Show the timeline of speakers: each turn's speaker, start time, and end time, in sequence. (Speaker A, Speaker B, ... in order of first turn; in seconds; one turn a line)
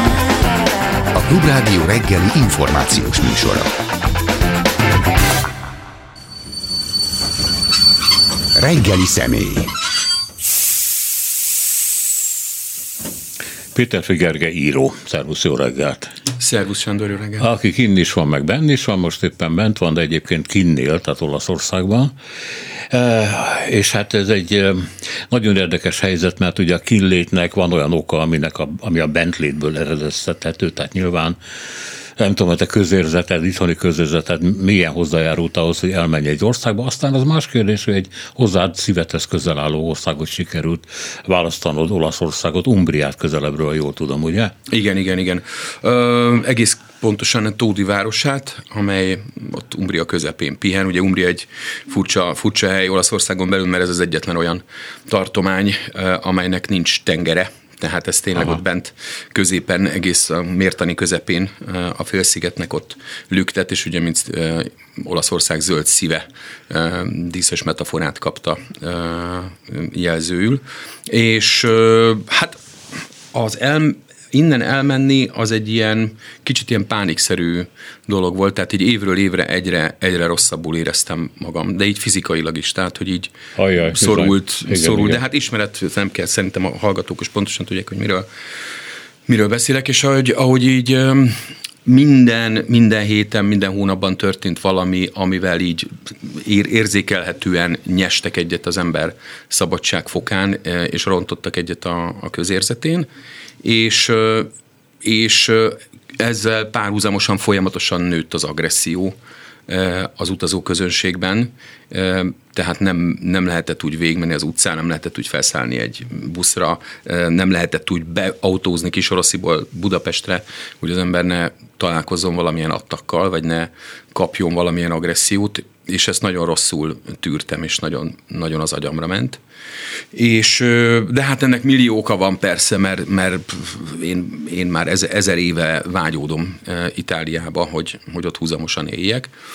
Speaker A: 1.1-3.7
Speaker A: 8.6-9.7
Speaker B: 13.8-16.1
Speaker C: 16.4-17.5
Speaker B: 17.4-22.1
Speaker B: 22.9-44.5
Speaker C: 44.7-72.6
Speaker C: 73.3-83.3
Speaker B: 83.6-85.2
Speaker C: 83.9-88.3
Speaker C: 89.3-103.1
Speaker C: 103.6-104.5
Speaker C: 105.0-109.2
Speaker C: 109.7-129.4
Speaker C: 130.1-139.3